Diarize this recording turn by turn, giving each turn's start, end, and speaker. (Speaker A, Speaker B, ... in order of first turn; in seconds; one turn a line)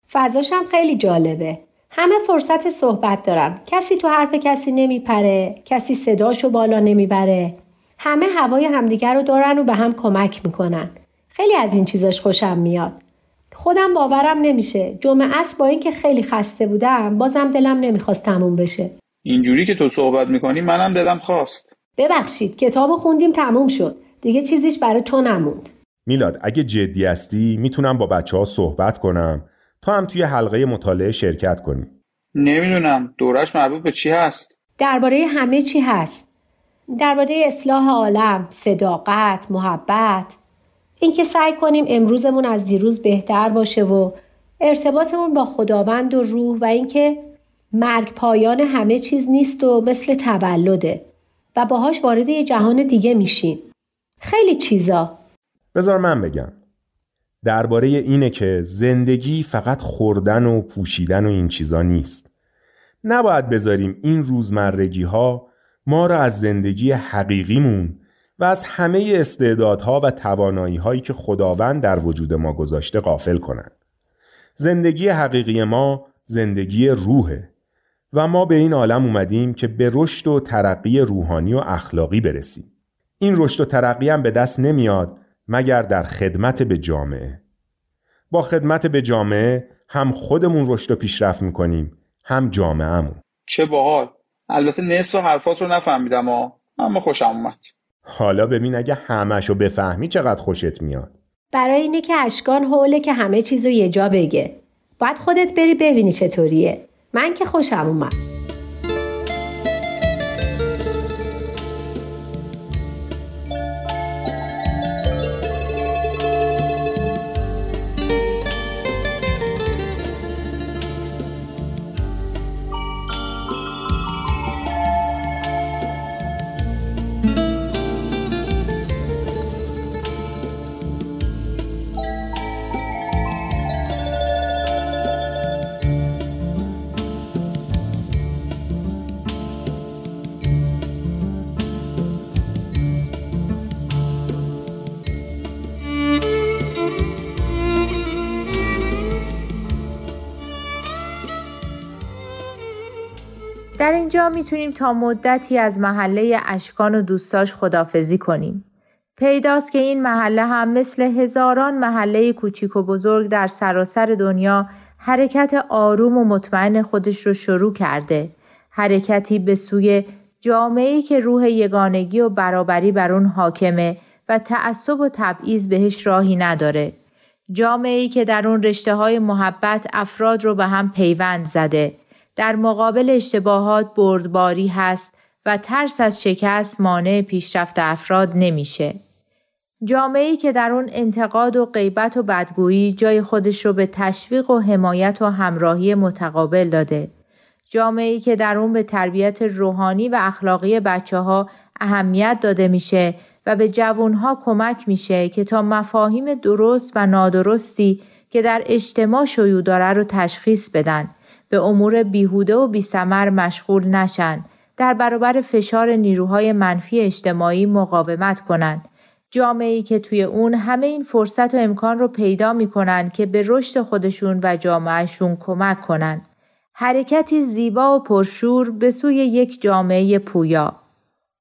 Speaker A: 0.1-13.0
Speaker A: 13.5-18.9
Speaker B: 19.2-21.7
Speaker A: 22.0-25.7
Speaker C: 26.1-31.9
Speaker B: 32.4-34.5
Speaker A: 34.8-36.2
Speaker A: 37.0-40.4
Speaker A: 41.0-53.6
Speaker A: 54.2-55.2
Speaker C: 55.7-56.6
Speaker C: 57.4-62.2
Speaker C: 63.0-73.7
Speaker C: 74.6-77.5
Speaker C: 78.1-87.4
Speaker C: 88.3-93.2
Speaker B: 93.5-97.7
Speaker C: 98.0-101.1
Speaker A: 101.5-108.2
Speaker D: 153.8-158.6
Speaker D: 159.2-176.9
Speaker D: 177.5-189.0
Speaker D: 189.9-197.1
Speaker D: 197.7-226.2
Speaker D: 226.8-230.8